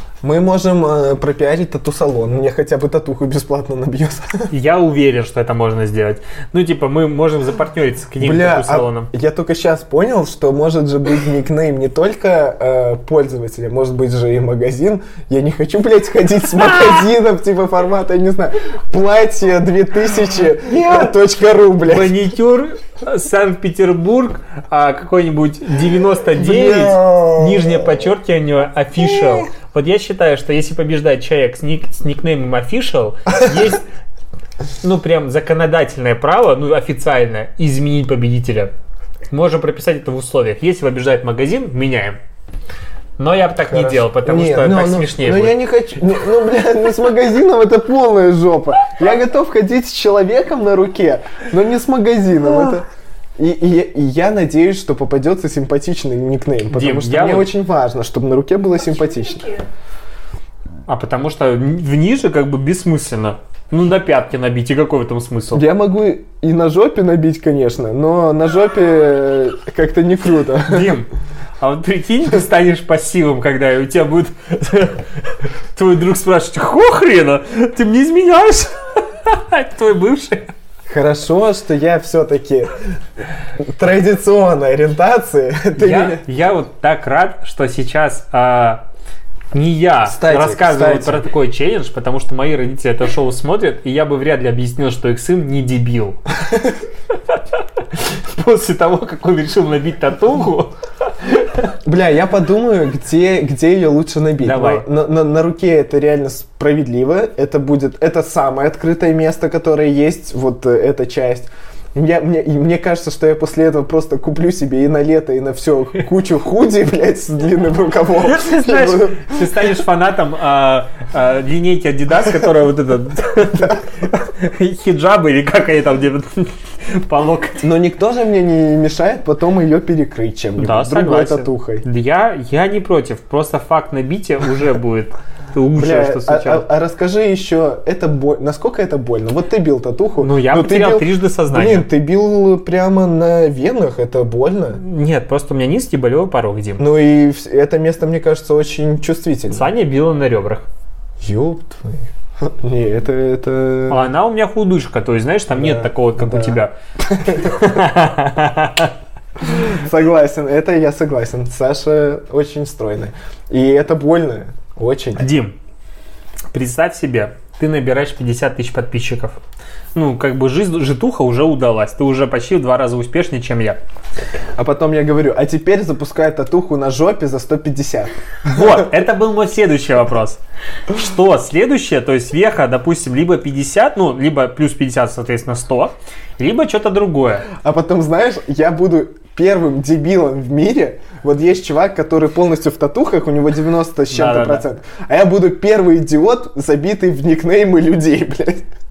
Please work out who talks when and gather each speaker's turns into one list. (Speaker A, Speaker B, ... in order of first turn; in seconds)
Speaker A: 0.2-4.5, 8.2-22.2, 26.4-28.0, 29.1-29.4, 43.7-52.8, 53.4-59.5, 65.5-71.0, 80.9-82.8, 83.6-86.2, 90.1-91.2, 101.8-119.7, 123.6-124.1, 127.6-131.8, 135.8-144.8, 146.8-149.7, 151.2-154.1, 155.5-157.7, 159.4-165.3, 174.6-178.9, 187.6-198.7
Speaker B: 4.5-9.1, 20.7-21.1, 21.8-33.9, 34.8-38.7, 39.3-42.2, 43.2-45.6, 56.7-57.5, 60.9-65.7, 70.7-71.1, 71.6-80.5, 85.8-88.8, 89.5-96.2, 97.3-101.7, 104.4-104.9, 118.2-127.7, 130.6-136.7, 140.2-141.9, 144.8-146.8, 149.5-150.7, 153.9-156.7, 157.3-158.9, 165.2-165.6, 166.5-169.4, 169.9-173.8, 178.5-187.5, 194.1-194.6